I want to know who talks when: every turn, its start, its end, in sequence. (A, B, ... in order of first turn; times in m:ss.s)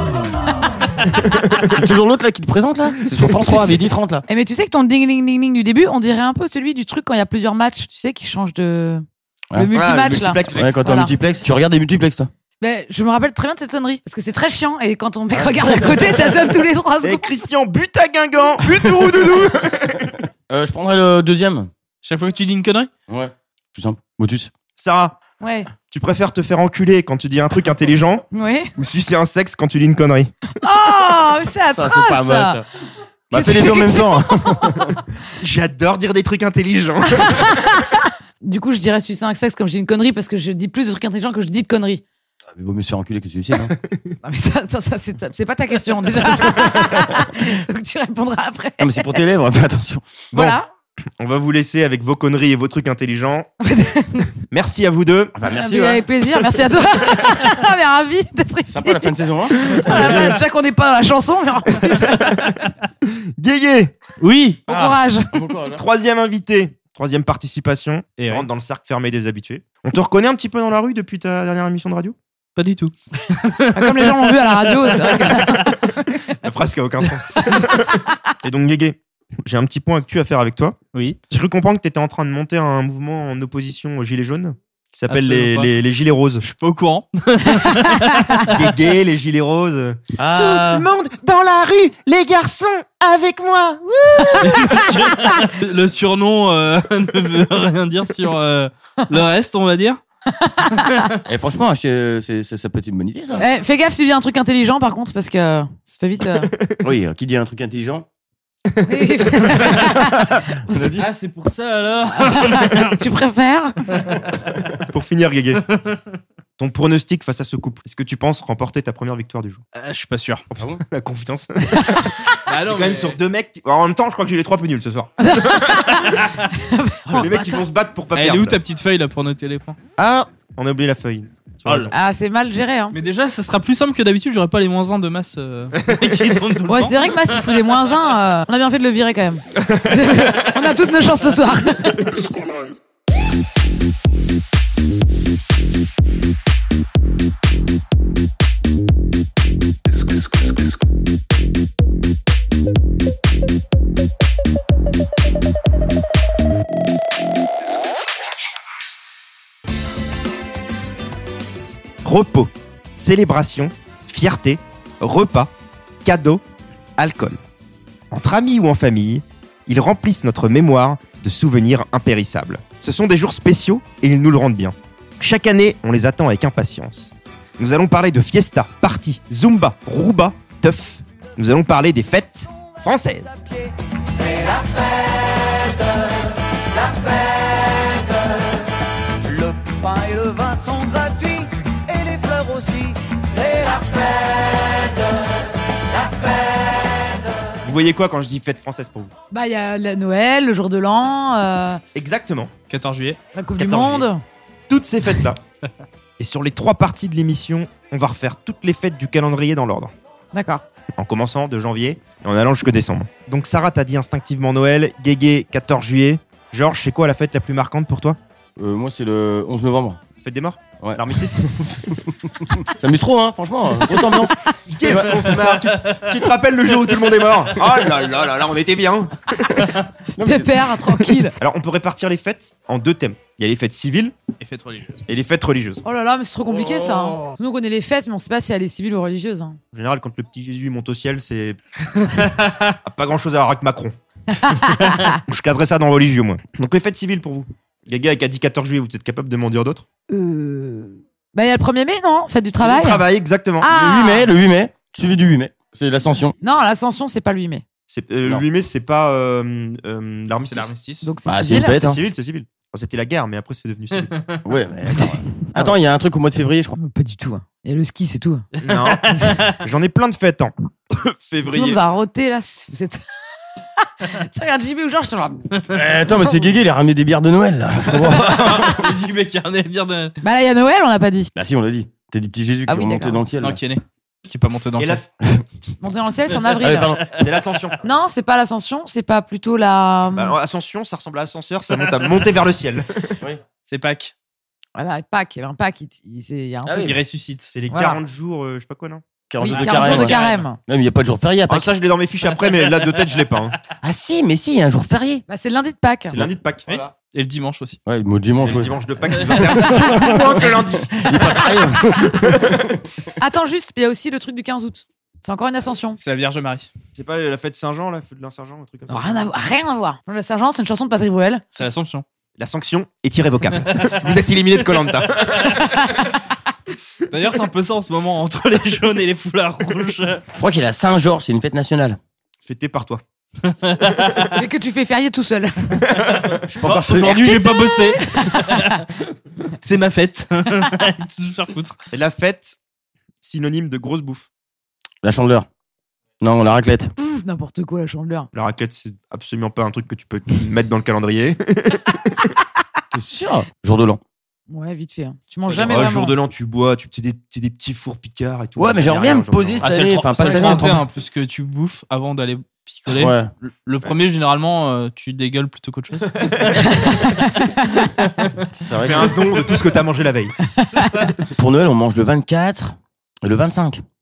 0:01.5-0:04.3 A
0:04.3-0:11.1 B
0:09.7-0:10.8 C
0:10.5-0:12.3 A
0:12.6-0:17.3 B
0:15.3-0:16.2 A
0:17.0-0:20.2 C
0:20.5-0:21.7 A
0:22.0-0:22.9 D
0:23.1-0:24.5 A
0:24.8-0:25.2 C
0:25.4-0:25.7 B
0:25.9-0:30.3 C
0:28.3-0:28.7 B
0:30.6-0:32.6 B
0:31.7-0:32.7 A
0:33.3-0:34.7 B
0:33.3-0:35.0 A
0:35.3-0:37.6 C
0:38.4-0:42.0 B
0:42.6-0:43.7 A
0:43.6-0:44.2 C
0:44.2-0:49.2 B
0:46.4-0:47.2 A
0:48.8-0:50.2 A
0:50.3-0:50.6 C
0:50.3-0:50.7 B
0:51.2-0:53.5 C
0:53.6-0:54.4 B
0:54.5-0:55.4 C
0:55.4-0:56.1 A
0:55.5-1:02.5 B
0:58.7-1:00.4 A
1:03.0-1:04.0 C
1:04.2-1:04.6 D
1:04.7-1:05.3 B
1:04.7-1:05.8 A
1:05.8-1:12.2 C
1:08.2-1:08.5 D
1:12.6-1:15.3 D
1:13.7-1:15.8 B
1:16.4-1:20.8 C
1:20.9-1:21.2 D
1:21.3-1:26.5 C
1:25.1-1:25.7 D
1:26.4-1:28.5 D
1:28.5-1:34.8 C
1:30.2-1:30.9 A
1:34.4-1:40.0 D
1:40.4-1:40.9 B
1:41.3-1:43.5 A
1:43.4-1:46.5 B
1:46.8-1:48.1 A
1:48.8-1:50.9 B
1:49.8-1:51.1 A
1:51.0-1:53.0 D
1:52.1-1:53.8 B
1:54.0-1:54.2 D
1:54.9-1:55.6 C
1:56.6-1:59.6 C
1:59.8-2:00.4 D
2:00.5-2:06.1 C
2:02.5-2:03.2 D
2:05.2-2:07.6 B
2:07.1-2:08.6 C
2:08.2-2:09.8 D
2:10.0-2:11.9 C
2:11.7-2:11.9 D
2:11.9-2:13.0 B
2:12.9-2:17.0 D
2:15.9-2:16.2 C
2:16.7-2:22.1 B
2:19.6-2:20.5 C
2:42.0-2:45.5 C
2:46.0-2:46.4 C
2:47.0-2:47.4 C
2:48.1-3:03.3 C
3:03.4-3:06.1 E
3:06.8-3:08.4 E
3:09.2-3:14.9 E
3:17.6-3:19.1 C
3:19.3-3:21.8 B
3:22.0-3:22.5 C
3:22.7-3:23.2 D
3:23.3-3:24.2 B
3:23.6-3:24.1 C
3:24.7-3:25.4 C
3:26.2-3:29.9 C
3:30.3-3:30.6 B
3:31.0-3:38.2 C
3:38.6-3:40.0 A
3:40.2-3:41.4 C
3:40.8-3:45.1 A
3:44.7-3:49.7 C
3:44.9-3:46.0 D
3:47.6-3:48.3 A
3:50.2-3:50.9 A
3:50.2-3:51.4 B
3:51.4-3:54.1 C
3:54.4-3:55.0 D
3:55.1-3:55.8 C
3:55.8-3:59.6 B
3:56.5-3:57.3 A
3:59.7-4:01.6 C
4:02.3-4:02.6 D
4:02.8-4:04.0 C
4:04.4-4:05.2 B
4:05.2-4:09.9 C
4:10.1-4:13.0 B
4:12.6-4:13.7 C
4:13.6-4:14.3 B
4:13.7-4:16.4 A
4:16.4-4:17.6 B
4:17.9-4:20.7 C
4:20.4-4:21.1 D
4:21.0-4:21.9 B
4:21.3-4:22.0 A
4:21.5-4:24.2 C
4:24.4-4:26.8 A
4:24.9-4:25.7 B
4:26.8-4:28.4 B
4:28.6-4:29.6 D
4:28.6-4:31.8 C
4:31.5-4:33.0 B
4:33.8-4:35.5 B
4:35.7-4:38.7 A
4:38.2-4:40.2 D
4:40.2-4:41.3 B
4:41.4-4:43.6 A
4:42.7-4:43.2 B
4:43.4-4:45.0 D
4:44.8-4:45.1 C
4:45.8-4:47.0 B
4:46.6-4:47.1 A
4:47.1-4:47.8 C
4:47.8-4:50.4 B
4:50.1-4:53.2 C
4:53.7-4:54.1 D
4:54.8-4:56.8 B
4:56.6-4:57.0 A
4:56.8-4:57.5 D
4:57.5-4:59.0 C
4:57.7-4:58.0 B
4:59.3-5:01.7 A
4:59.4-5:00.6 B
4:59.5-5:00.4 D
5:01.5-5:03.6 C
5:03.8-5:05.2 A
5:05.3-5:06.2 B
5:06.1-5:06.7 C
5:06.7-5:07.8 D
5:07.9-5:12.8 A
5:08.4-5:11.1 C
5:09.2-5:09.5 D
5:09.8-5:10.1 B
5:12.0-5:12.7 C
5:13.2-5:16.0 B
5:16.0-5:16.7 D
5:17.0-5:19.3 C
5:18.9-5:21.4 B
5:21.5-5:22.0 D
5:22.4-5:25.7 C
5:23.7-5:24.2 D
5:24.8-5:25.6 D
5:27.1-5:30.2 D
5:30.4-5:32.0 A
5:32.4-5:33.0 C
5:33.5-5:34.2 D
5:34.3-5:35.8 B
5:35.8-5:36.4 C
5:36.5-5:37.4 A
5:36.6-5:38.9 D
5:37.1-5:38.8 B
5:39.6-5:41.8 D
5:41.9-5:42.6 C
5:43.2-5:44.3 C
5:45.0-5:45.5 A
5:46.2-5:46.9 A
5:47.0-5:48.3 B
5:48.3-5:52.3 C
5:52.9-5:54.0 A
5:54.5-5:56.2 B
5:55.5-5:59.7 C
5:58.6-6:00.8 A
5:59.6-6:07.2 D
6:00.2-6:00.8 C
6:02.9-6:03.3 A
6:06.2-6:06.8 C
6:06.8-6:07.7 B
6:08.0-6:08.5 D
6:08.6-6:09.3 A
6:08.8-6:10.4 C
6:10.6-6:11.1 B
6:11.3-6:13.8 A